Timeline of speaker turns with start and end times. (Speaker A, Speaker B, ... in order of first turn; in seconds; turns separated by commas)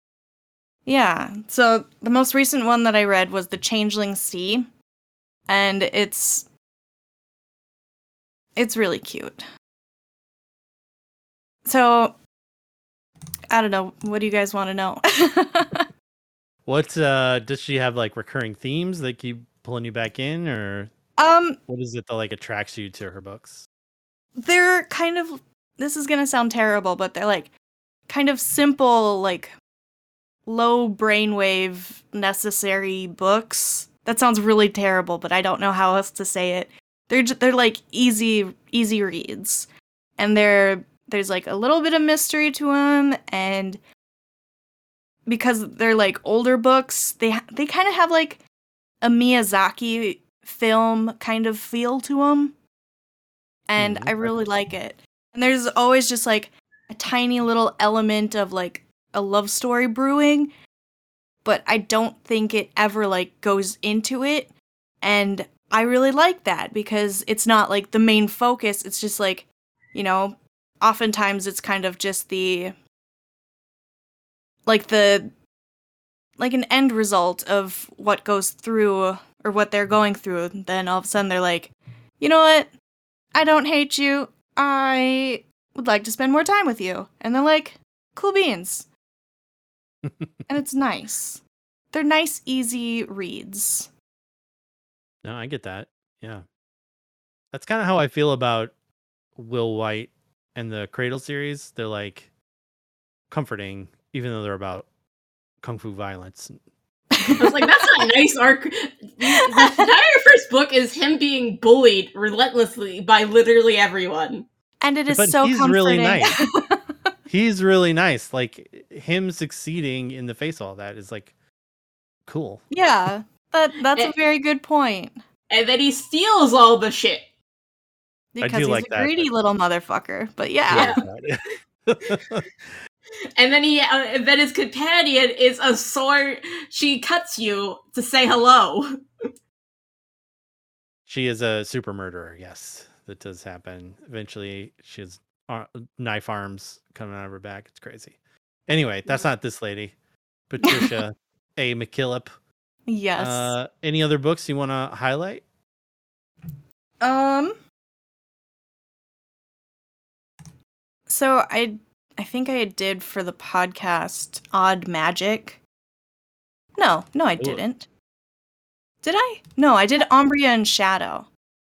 Speaker A: 0.9-4.7, Speaker A: 5.5-6.5, Speaker A: 8.6-9.4, Speaker A: 11.7-12.2, Speaker A: 13.5-15.9, Speaker B: 16.7-20.9, Speaker A: 21.2-21.6, Speaker B: 21.7-23.7, Speaker A: 24.4-27.5, Speaker A: 28.1-29.5, Speaker A: 30.5-43.8, Speaker A: 45.3-48.4, Speaker A: 49.0-52.6, Speaker A: 53.7-60.5, Speaker B: 53.8-54.3, Speaker A: 61.4-72.7, Speaker A: 74.7-75.3, Speaker A: 76.4-82.7, Speaker A: 83.3-88.9, Speaker A: 90.5-93.9, Speaker B: 95.2-96.4, Speaker B: 97.5-98.7, Speaker B: 99.4-102.3, Speaker B: 103.3-104.9, Speaker B: 105.6-106.6, Speaker A: 107.2-107.6, Speaker B: 107.2-107.5, Speaker C: 107.4-114.5, Speaker A: 109.2-109.8, Speaker A: 114.8-117.1, Speaker B: 115.1-116.4, Speaker B: 117.3-121.3, Speaker B: 122.3-122.6, Speaker A: 122.7-125.2, Speaker C: 125.5-127.3, Speaker A: 128.3-131.0, Speaker B: 128.4-129.3, Speaker B: 130.7-132.5, Speaker C: 130.7-131.0, Speaker C: 133.4-138.9, Speaker B: 141.1-148.2, Speaker B: 148.7-150.0, Speaker B: 150.5-152.3, Speaker A: 150.6-151.0, Speaker A: 152.9-153.6, Speaker B: 153.2-155.4, Speaker A: 157.0-157.6, Speaker A: 161.1-165.6, Speaker A: 166.8-167.9, Speaker A: 169.0-171.3